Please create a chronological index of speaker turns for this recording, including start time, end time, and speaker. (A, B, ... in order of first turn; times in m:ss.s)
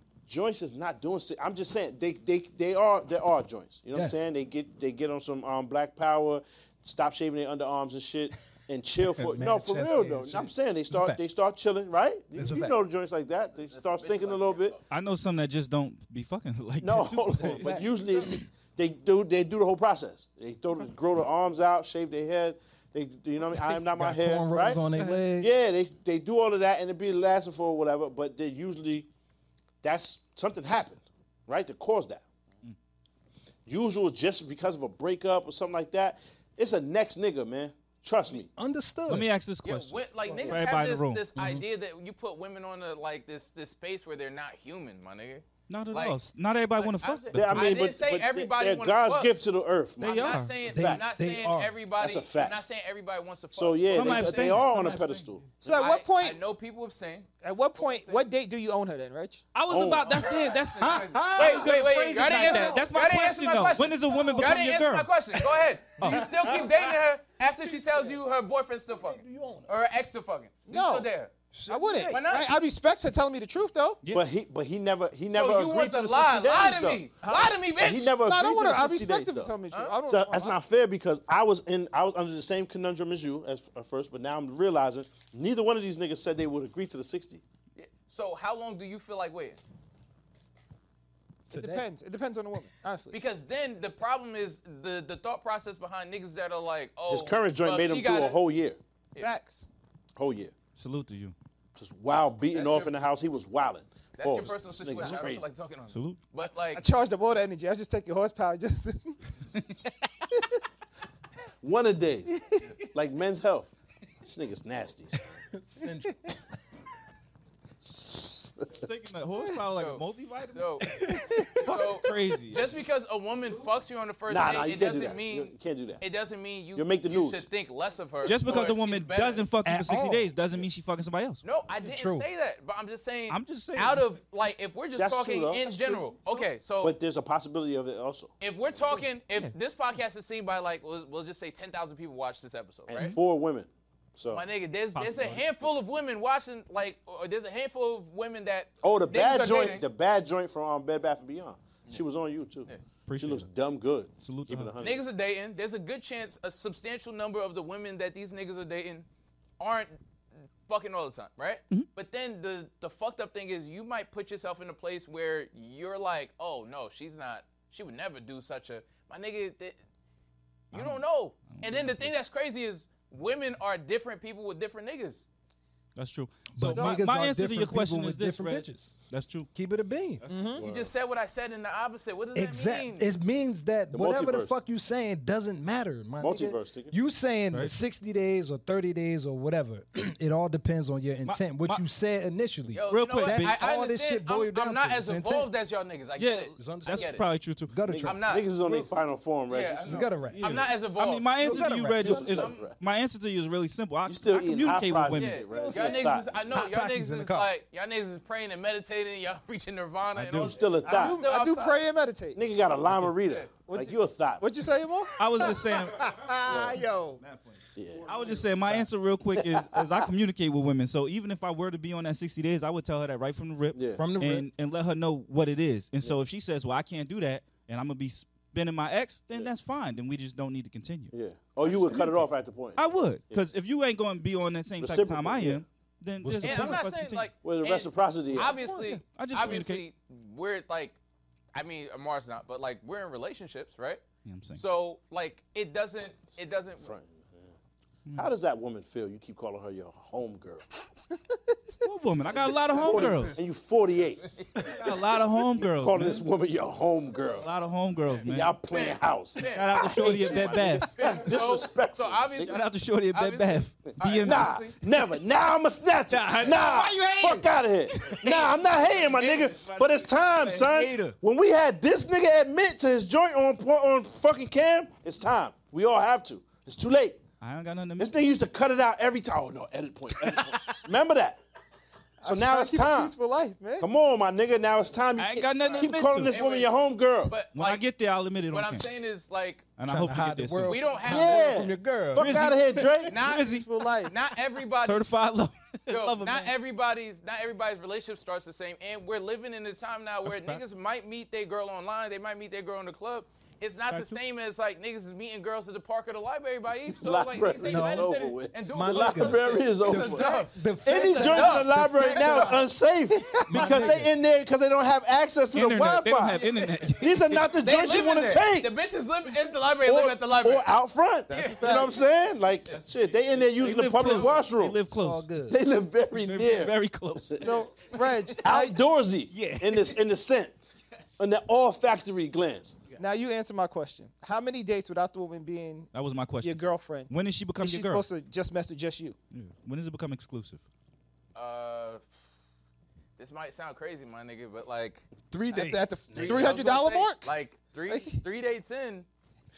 0:00.3-0:14.8 A
0:09.0-0:11.2 B
0:12.3-0:12.8 B
0:13.7-0:14.8 C
0:14.9-0:17.6 D
0:16.8-0:24.8 A
0:17.4-0:17.9 B
0:23.6-0:25.5 B
0:24.9-0:25.3 D
0:25.4-0:29.1 A
0:29.8-0:32.2 A
0:33.7-0:38.5 A
0:38.3-0:39.3 B
0:39.1-0:41.2 D
0:39.6-0:46.2 C
0:40.2-0:40.6 E
0:41.3-0:41.6 B
0:45.7-0:47.8 D
0:46.8-0:49.3 C
0:47.3-0:51.0 A
0:50.0-0:50.6 D
0:50.0-0:54.7 C
0:50.6-0:51.7 B
0:52.0-0:52.6 A
0:53.5-0:55.8 A
0:53.9-0:55.3 D
0:55.6-0:56.4 E
0:55.8-0:58.2 C
0:57.4-0:59.4 E
0:59.5-1:05.2 D
0:59.7-1:00.2 A
1:00.1-1:11.3 C
1:01.3-1:01.6 B
1:01.4-1:01.7 E
1:02.2-1:02.8 E
1:02.4-1:02.8 B
1:06.0-1:06.3 D
1:06.0-1:06.9 E
1:08.9-1:09.7 B
1:10.7-1:11.1 E
1:11.5-1:12.2 B
1:11.7-1:14.0 E
1:12.1-1:12.5 C
1:14.1-1:17.0 A
1:15.3-1:18.1 C
1:17.2-1:20.6 E
1:17.8-1:19.5 A
1:19.7-1:20.0 C
1:20.1-1:27.4 A
1:27.8-1:29.6 C
1:31.5-1:31.9 B
1:31.5-1:33.1 E
1:33.1-1:38.4 C
1:37.1-1:38.8 A
1:39.2-1:39.7 E
1:40.2-1:40.5 A
1:40.8-1:41.3 D
1:41.8-1:45.5 A
1:42.5-1:43.0 C
1:44.2-1:46.8 C
1:45.9-1:46.2 D
1:46.7-1:49.6 E
1:51.6-1:52.4 A
1:52.4-1:52.7 E
1:52.9-1:53.7 A
1:54.2-1:55.4 A
1:55.5-1:56.4 B
1:57.8-1:58.7 A
1:58.8-2:02.7 D
1:59.8-2:00.9 C
2:00.8-2:01.7 B
2:01.6-2:09.5 C
2:04.3-2:06.0 A
2:06.7-2:07.4 A
2:08.2-2:11.4 D
2:09.6-2:10.3 B
2:11.4-2:16.9 C
2:11.8-2:12.3 B
2:13.3-2:14.1 D
2:15.0-2:16.1 A
2:16.8-2:18.3 A
2:18.4-2:23.2 C
2:22.9-2:24.4 A
2:24.3-2:29.8 C
2:24.9-2:25.6 D
2:28.8-2:35.0 A
2:33.1-2:33.5 D
2:34.2-2:34.7 D
2:34.8-2:39.0 C
2:39.6-2:40.0 C
2:40.7-2:49.8 C
2:50.7-2:55.2 C
2:50.7-2:52.1 D
2:56.0-2:59.5 D
2:56.5-2:58.9 B
2:59.5-3:00.2 B
3:00.3-3:00.6 E
3:00.5-3:00.9 A
3:00.6-3:03.1 C
3:02.3-3:15.5 B
3:03.9-3:04.6 A
3:06.2-3:06.9 A
3:11.2-3:11.8 D
3:12.7-3:17.2 C
3:12.8-3:13.6 D
3:16.2-3:17.7 D
3:16.6-3:18.9 B
3:17.9-3:20.0 A
3:18.0-3:18.5 C
3:19.5-3:22.7 C
3:19.8-3:20.7 B
3:20.3-3:25.4 D
3:21.4-3:22.5 B
3:22.0-3:22.7 A
3:24.1-3:26.4 A
3:25.1-3:31.8 C
3:25.5-3:27.5 B
3:30.1-3:30.6 D
3:30.4-3:31.2 A
3:30.8-3:32.4 E
3:32.3-3:34.4 A
3:33.7-3:37.2 E
3:35.2-3:36.1 D
3:36.4-3:36.8 A
3:37.2-3:37.6 C
3:37.7-3:38.4 A
3:38.0-3:57.3 D
3:39.3-3:39.9 A
3:43.7-3:44.0 A
3:44.0-3:44.5 B
3:51.1-3:53.4 A
3:54.8-3:55.6 A
3:56.2-3:56.8 B
3:56.4-4:01.0 C
3:57.4-3:58.6 A
3:58.3-3:59.0 B
3:58.6-3:59.8 D
4:01.5-4:04.0 C
4:04.2-4:04.6 D
4:04.6-4:06.9 C
4:06.8-4:07.4 A
4:08.1-4:10.6 A
4:11.8-4:13.4 D
4:12.7-4:14.2 A
4:12.9-4:13.2 C
4:14.2-4:14.7 C
4:14.6-4:16.2 D
4:15.7-4:17.5 A
4:17.3-4:18.5 D
4:18.2-4:22.5 A
4:18.7-4:24.8 C
4:19.5-4:21.3 D
4:22.4-4:24.7 D
4:24.2-4:37.2 A
4:26.1-4:28.2 D
4:28.0-4:31.0 C
4:30.6-4:31.1 D
4:37.4-4:38.2 D
4:38.0-4:41.4 A
4:40.2-4:40.8 D
4:42.2-4:43.9 E
4:42.2-4:43.1 A
4:43.8-4:47.3 A
4:45.2-4:46.4 D
4:46.3-4:46.7 C
4:47.2-4:47.9 C
4:47.5-4:48.9 D
4:48.5-4:49.7 C
4:49.8-4:50.9 D
4:49.8-4:52.9 B
4:50.6-4:51.6 C
4:51.0-4:53.2 A
4:52.1-4:53.7 D
4:53.1-4:55.1 C
4:53.3-4:54.1 E
4:54.8-4:56.5 D
4:55.9-5:12.6 C
5:00.2-5:00.6 D
5:03.9-5:04.2 D
5:07.0-5:18.7 A
5:07.6-5:12.6 B
5:13.4-5:14.1 B
5:13.6-5:13.9 D
5:15.5-5:17.5 D
5:16.3-5:16.9 C
5:17.6-5:20.7 C
5:19.8-5:24.8 A
5:21.3-5:21.9 C
5:21.4-5:21.9 E
5:23.4-5:25.3 D
5:24.9-5:25.6 B
5:25.5-5:26.8 A
5:26.1-5:27.6 D
5:27.4-5:28.8 E
5:28.4-5:30.5 A
5:29.3-5:30.0 D
5:31.2-5:32.8 A
5:33.0-5:35.9 E
5:35.9-5:38.0 D
5:36.4-5:39.2 E
5:39.3-5:40.6 D
5:41.3-5:42.0 C
5:43.2-5:45.0 C
5:45.3-5:46.5 B
5:45.5-5:47.3 E
5:46.1-5:49.0 C
5:47.9-5:48.2 E